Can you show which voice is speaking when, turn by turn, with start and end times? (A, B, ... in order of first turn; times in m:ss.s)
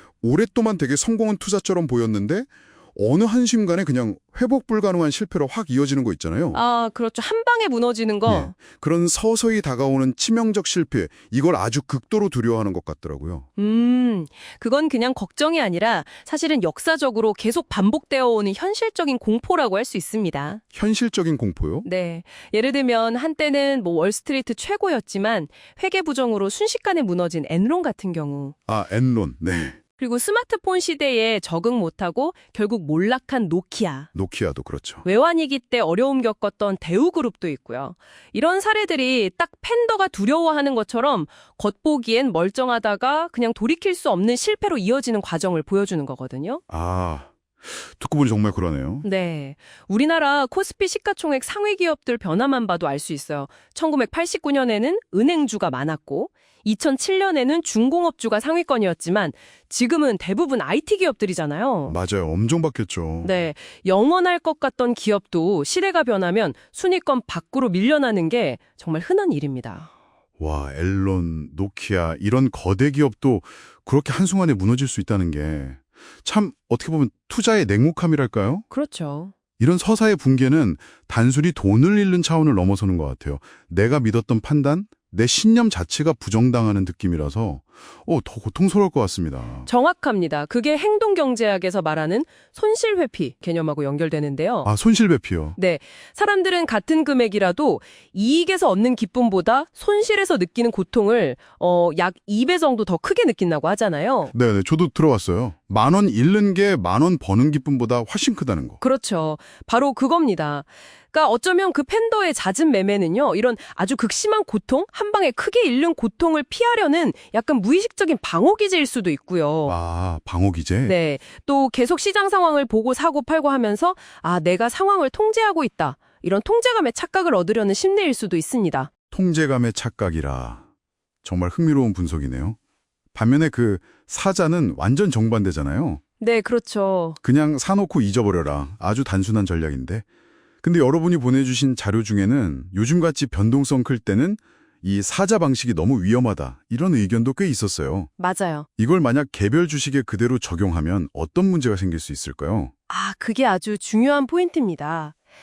0:00.2-0:06.6 A
0:06.5-0:08.5 B
0:08.2-0:13.5 A
0:13.6-0:20.6 B
0:20.7-0:21.9 A
0:21.8-0:28.6 B
0:28.7-0:29.8 A
0:30.0-0:34.1 B
0:34.2-0:35.0 A
0:35.0-0:46.6 B
0:46.7-0:49.0 A
0:49.0-1:02.0 B
1:01.9-1:03.4 A
1:03.2-1:09.9 B
1:10.4-1:18.7 A
1:18.7-1:19.3 B
1:19.6-1:29.7 A
1:29.6-1:34.7 B
1:34.6-1:35.6 A
1:35.6-1:44.3 B
1:44.3-1:48.8 A
1:48.8-1:59.8 B
1:59.7-2:01.0 A
2:00.8-2:08.9 B
2:09.1-2:10.6 A
2:11.2-2:12.6 A
2:13.1-2:16.0 A
2:16.2-2:17.2 B
2:17.2-2:20.0 A
2:20.6-2:28.1 A
2:28.2-2:28.7 B
2:28.8-2:32.7 A
2:32.9-2:35.1 B